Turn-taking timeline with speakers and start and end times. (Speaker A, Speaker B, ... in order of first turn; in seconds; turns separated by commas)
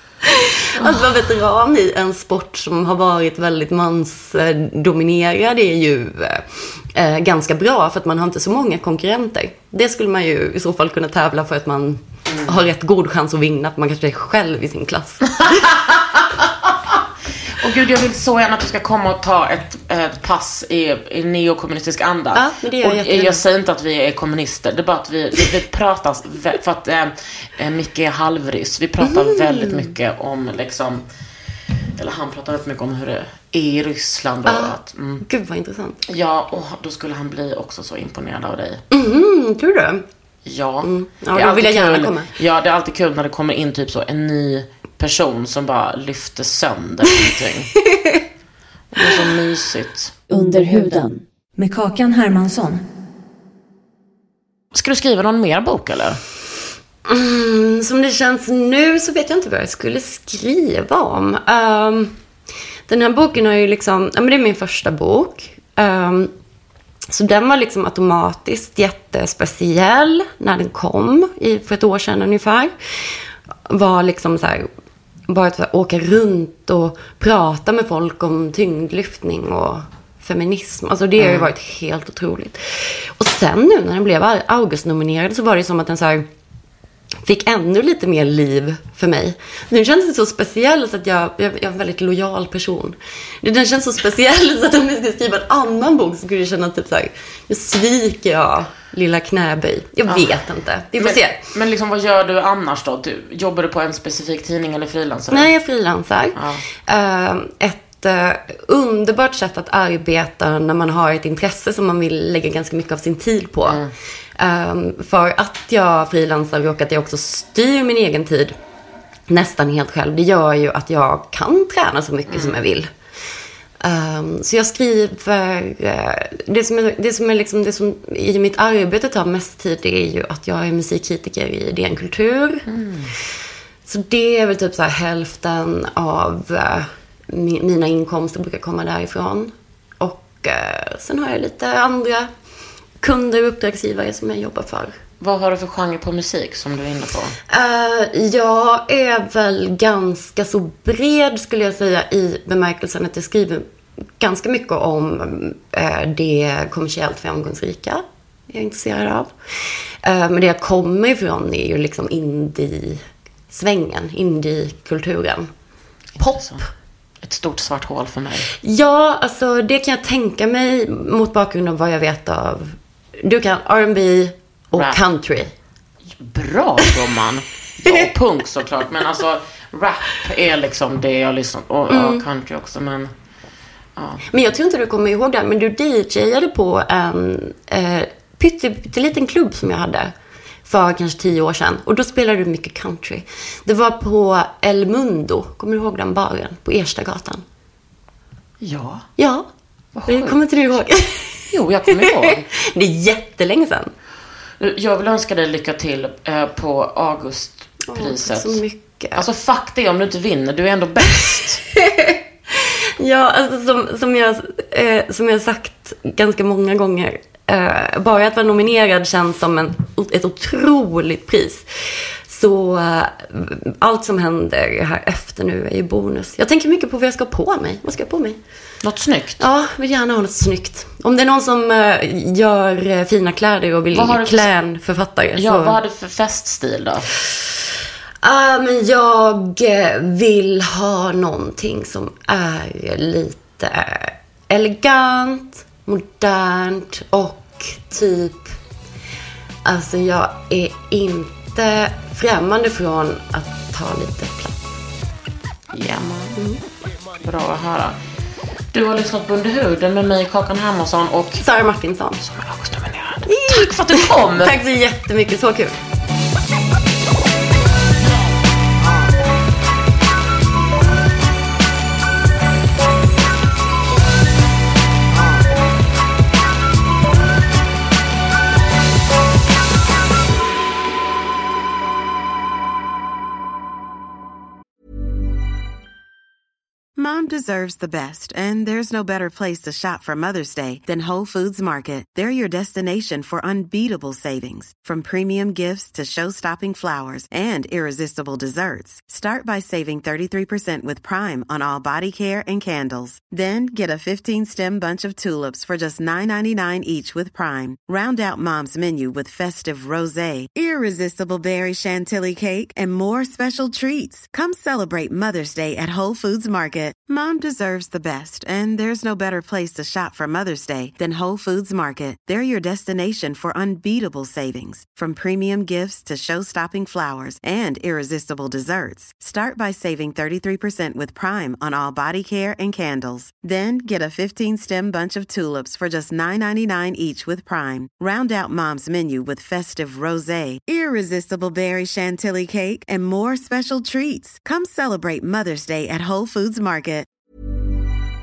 Speaker A: 0.2-15.7, Speaker B: 0.8-1.0, Speaker B: 15.7-17.0, Speaker B: 17.6-31.0, Speaker A: 22.3-23.4, Speaker A: 29.0-29.9, Speaker B: 32.0-35.2, Speaker A: 34.5-36.0, Speaker B: 36.0-38.8, Speaker A: 38.9-40.0, Speaker B: 40.5-47.7, Speaker A: 40.8-42.3, Speaker A: 47.9-48.2, Speaker B: 48.9-50.2, Speaker C: 50.3-52.8, Speaker B: 54.7-56.2, Speaker A: 57.0-62.1, Speaker A: 62.9-66.3, Speaker A: 67.1-72.7, Speaker A: 73.7-74.7, Speaker A: 75.3-86.3, Speaker B: 81.2-81.5, Speaker A: 87.2-101.4, Speaker B: 100.0-100.4, Speaker B: 101.0-105.5, Speaker A: 105.3-113.8, Speaker B: 106.3-106.6, Speaker B: 113.6-113.9, Speaker A: 114.4-118.5, Speaker A: 119.3-122.9, Speaker B: 122.3-122.6, Speaker A: 123.8-132.7, Speaker B: 132.7-133.1, Speaker A: 133.9-142.3, Speaker A: 143.0-144.9, Speaker B: 145.2-147.4, Speaker A: 147.5-153.6, Speaker A: 154.2-159.3, Speaker A: 160.0-165.5, Speaker A: 166.2-166.7, Speaker B: 166.2-166.6, Speaker B: 167.2-168.5, Speaker A: 168.6-175.5, Speaker B: 174.7-175.0, Speaker B: 176.2-183.1, Speaker A: 181.9-182.2, Speaker B: 184.0-184.2, Speaker A: 184.3-190.1, Speaker A: 190.6-197.4, Speaker B: 198.6-199.1, Speaker A: 199.2-199.5, Speaker B: 199.9-200.4, Speaker A: 200.1-203.9, Speaker B: 201.5-202.4, Speaker B: 204.6-208.6, Speaker A: 207.9-209.2, Speaker B: 209.1-211.6, Speaker A: 211.8-221.6, Speaker A: 222.3-228.4, Speaker B: 228.8-229.4, Speaker A: 229.4-235.8, Speaker B: 233.9-234.5, Speaker B: 235.3-237.1, Speaker A: 238.2-248.6, Speaker A: 249.6-254.6, Speaker B: 255.7-256.4, Speaker A: 256.4-256.6, Speaker B: 257.2-258.0, Speaker B: 258.7-261.5, Speaker A: 261.4-262.2, Speaker B: 262.2-264.6, Speaker A: 263.3-265.8, Speaker D: 287.0-347.1